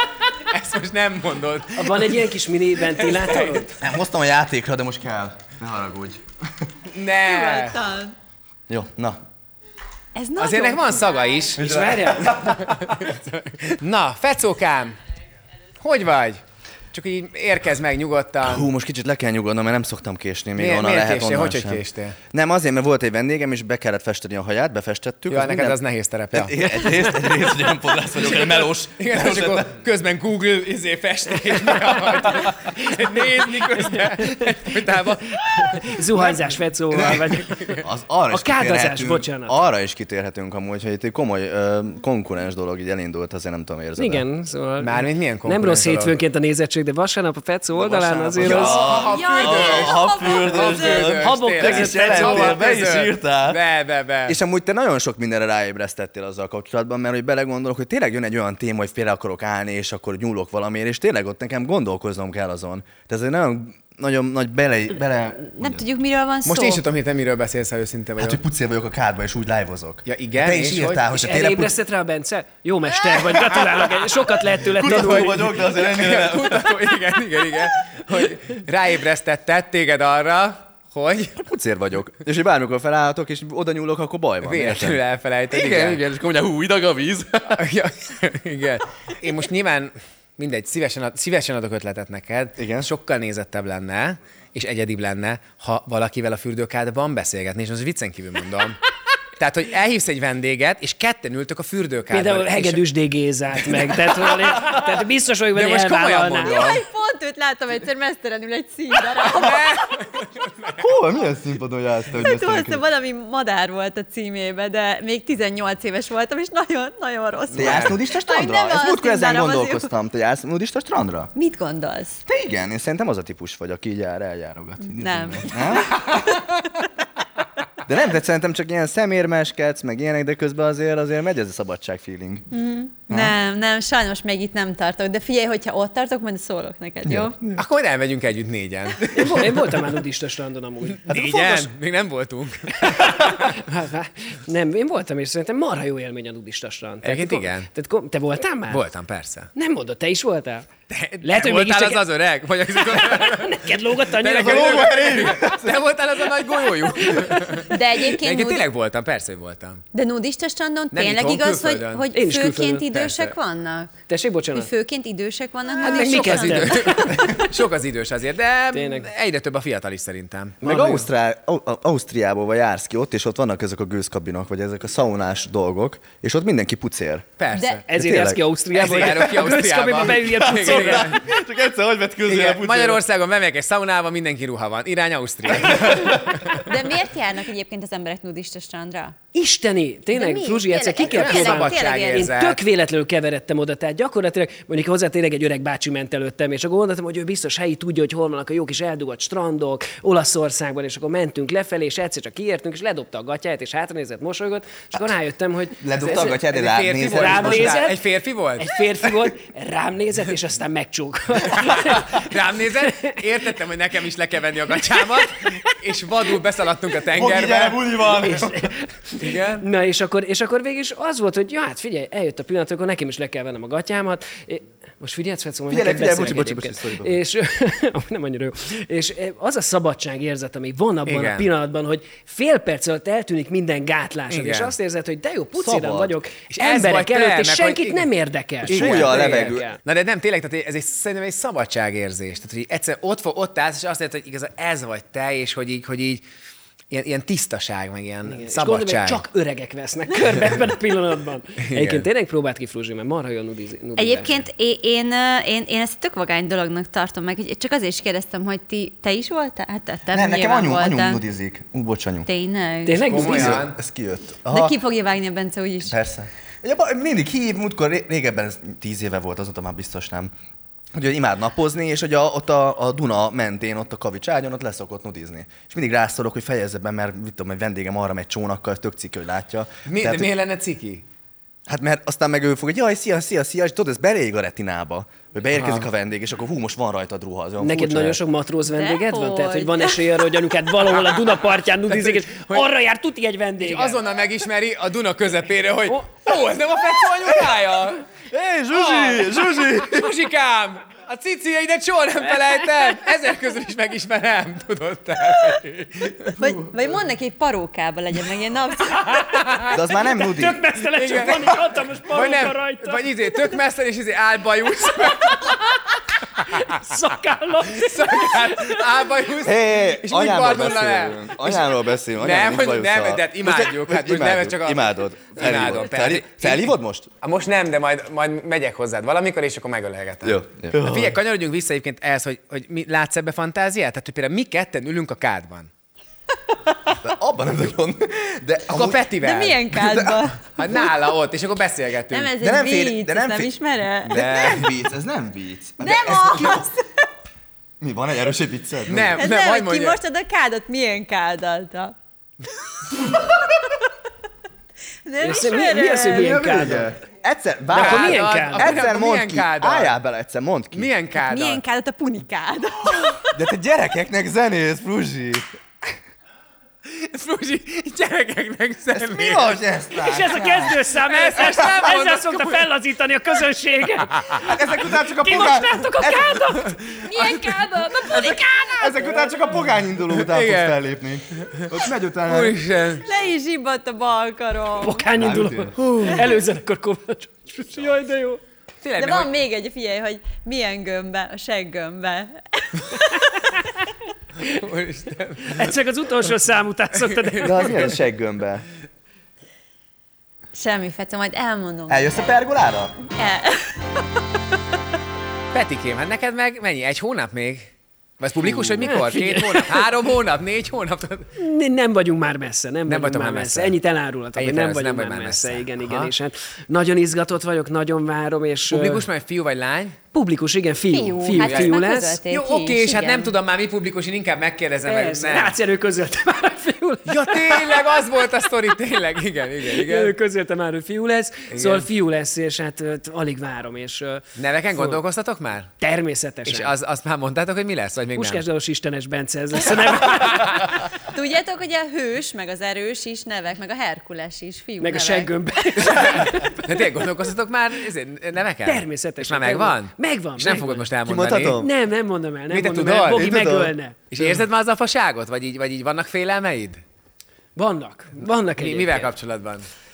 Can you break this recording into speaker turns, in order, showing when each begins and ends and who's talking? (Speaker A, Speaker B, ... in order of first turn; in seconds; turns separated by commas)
Speaker A: 0.5-2.3, Speaker B: 1.8-3.7, Speaker A: 2.9-3.6, Speaker C: 3.8-6.2, Speaker A: 6.9-7.8, Speaker D: 7.2-8.1, Speaker C: 8.7-9.2, Speaker D: 10.1-11.5, Speaker A: 10.4-15.0, Speaker C: 11.6-12.9, Speaker B: 11.6-12.2, Speaker A: 15.8-16.4, Speaker A: 16.9-18.7, Speaker C: 18.4-25.8, Speaker A: 20.6-22.2, Speaker A: 25.3-27.5, Speaker C: 26.3-29.7, Speaker A: 28.1-36.0, Speaker B: 35.6-37.8, Speaker C: 36.9-44.2, Speaker A: 37.4-37.8, Speaker B: 38.3-39.5, Speaker B: 44.0-48.9, Speaker A: 44.8-46.1, Speaker C: 47.7-53.6, Speaker A: 48.4-54.4, Speaker D: 48.8-51.1, Speaker B: 51.2-52.6, Speaker C: 54.2-65.8, Speaker D: 65.5-66.8, Speaker A: 66.5-68.4, Speaker C: 68.2-71.7, Speaker A: 70.1-71.1, Speaker B: 71.2-75.5, Speaker A: 73.1-74.1, Speaker A: 74.7-81.4, Speaker C: 74.7-76.7, Speaker C: 81.4-85.0, Speaker A: 84.4-86.0, Speaker C: 85.5-87.7, Speaker A: 87.5-98.8, Speaker C: 92.6-92.9, Speaker A: 99.4-102.8, Speaker B: 102.1-106.5, Speaker A: 103.5-104.9, Speaker A: 105.5-106.8, Speaker D: 106.5-109.9, Speaker A: 109.3-110.8, Speaker C: 110.8-112.8, Speaker D: 112.1-119.9, Speaker A: 117.5-118.0, Speaker C: 117.5-121.3, Speaker D: 121.3-122.2, Speaker C: 122.3-126.1, Speaker D: 124.9-126.1, Speaker C: 127.8-132.5, Speaker D: 132.5-137.3, Speaker C: 133.1-133.3, Speaker C: 137.1-137.6, Speaker A: 137.6-139.7, Speaker B: 139.1-141.7, Speaker A: 140.9-143.3, Speaker B: 142.8-148.8, Speaker A: 147.0-147.7, Speaker A: 148.7-149.5, Speaker B: 149.5-150.7, Speaker A: 150.9-159.8, Speaker B: 151.2-152.0, Speaker B: 152.7-155.2, Speaker C: 154.2-155.8, Speaker B: 157.0-157.6, Speaker D: 157.7-158.7, Speaker D: 159.9-163.9, Speaker A: 160.9-162.1, Speaker B: 162.1-162.9, Speaker A: 162.9-163.3, Speaker B: 164.1-164.7, Speaker D: 164.5-167.0, Speaker B: 165.8-167.5, Speaker A: 165.8-170.6, Speaker B: 168.7-169.1, Speaker B: 170.6-171.1, Speaker C: 170.6-177.2, Speaker A: 177.4-177.8, Speaker D: 177.5-177.8, Speaker B: 177.9-181.1, Speaker C: 177.9-178.4, Speaker A: 178.7-181.2, Speaker C: 178.9-179.3, Speaker C: 180.2-183.0, Speaker A: 182.2-186.7, Speaker C: 185.8-186.0, Speaker D: 186.5-189.2, Speaker B: 189.3-206.4, Speaker D: 190.1-192.3, Speaker A: 191.0-192.6, Speaker C: 205.8-207.8, Speaker A: 206.5-208.7, Speaker B: 207.0-208.0, Speaker B: 208.6-213.2, Speaker A: 211.5-217.8, Speaker C: 217.1-218.7, Speaker B: 218.0-239.8, Speaker A: 219.2-219.7, Speaker C: 225.7-227.2, Speaker A: 231.1-231.5, Speaker A: 234.3-234.7, Speaker C: 235.5-236.2, Speaker A: 236.5-238.1, Speaker A: 238.6-246.2, Speaker C: 238.6-239.7, Speaker A: 246.9-249.2, Speaker B: 248.3-254.4, Speaker A: 251.6-252.1, Speaker D: 253.9-261.2, Speaker C: 260.1-262.3, Speaker D: 262.2-263.2, Speaker B: 262.8-263.6, Speaker A: 263.0-263.8, Speaker C: 263.2-264.8, Speaker D: 264.5-265.9, Speaker C: 265.9-270.3, Speaker C: 270.9-280.3, Speaker A: 279.9-281.0, Speaker C: 281.7-288.2, Speaker A: 285.5-285.9, Speaker B: 287.6-294.0, Speaker D: 288.6-290.2, Speaker A: 291.9-292.6, Speaker A: 293.6-298.0, Speaker C: 298.3-300.1, Speaker A: 298.7-306.4, Speaker D: 306.4-309.3, Speaker A: 309.2-309.8, Speaker C: 309.7-310.6, Speaker B: 310.1-313.1, Speaker A: 310.8-315.6, Speaker B: 315.1-315.6, Speaker B: 316.4-318.9, Speaker A: 317.7-335.7, Speaker C: 319.4-327.1, Speaker C: 330.2-331.2, Speaker C: 337.0-339.0, Speaker A: 338.7-339.8, Speaker D: 339.2-340.4, Speaker C: 339.7-340.2, Speaker A: 340.6-342.3, Speaker D: 342.1-344.2, Speaker C: 342.4-343.5, Speaker C: 344.0-346.7, Speaker A: 344.1-344.7, Speaker D: 345.8-346.7, Speaker C: 347.8-349.2, Speaker A: 348.9-350.0, Speaker D: 349.2-351.9, Speaker D: 355.1-356.4, Speaker B: 355.2-356.9, Speaker C: 356.0-360.9, Speaker B: 357.7-358.8, Speaker A: 357.7-359.9, Speaker A: 360.7-361.6, Speaker D: 361.3-363.4, Speaker C: 363.3-365.4, Speaker A: 366.9-369.6, Speaker C: 368.9-370.8, Speaker B: 369.9-379.3, Speaker A: 371.1-372.7, Speaker C: 374.4-376.4, Speaker D: 377.1-378.4, Speaker A: 377.1-377.4, Speaker C: 378.8-382.6, Speaker A: 380.1-380.8, Speaker A: 381.4-381.7, Speaker A: 382.2-383.0, Speaker D: 383.0-385.0, Speaker B: 384.8-388.4, Speaker C: 385.1-385.8, Speaker A: 385.8-386.4, Speaker A: 388.8-389.3, Speaker D: 389.0-393.6, Speaker A: 394.4-395.7, Speaker B: 395.5-397.9, Speaker A: 396.9-397.9, Speaker C: 397.4-398.6, Speaker D: 400.5-402.3, Speaker C: 401.9-402.9, Speaker D: 403.1-403.9, Speaker A: 405.5-411.3, Speaker B: 408.4-410.0, Speaker B: 411.4-419.1, Speaker A: 412.9-413.8, Speaker A: 414.3-416.1, Speaker A: 418.7-420.0, Speaker B: 420.1-422.2, Speaker D: 420.9-423.3, Speaker A: 421.4-421.8, Speaker A: 422.3-425.6, Speaker B: 424.8-427.9, Speaker A: 427.1-430.1, Speaker B: 429.6-435.0, Speaker A: 431.5-431.9, Speaker A: 434.4-435.7, Speaker B: 435.8-436.7, Speaker A: 436.4-438.4, Speaker B: 438.1-440.8, Speaker A: 439.6-440.8, Speaker D: 441.0-445.3, Speaker B: 444.8-446.9, Speaker A: 445.8-451.6, Speaker B: 448.6-450.9, Speaker C: 451.0-451.7, Speaker B: 451.6-454.3, Speaker A: 452.5-453.4, Speaker C: 453.1-453.7, Speaker A: 454.1-456.8, Speaker B: 457.6-459.1, Speaker A: 458.6-459.7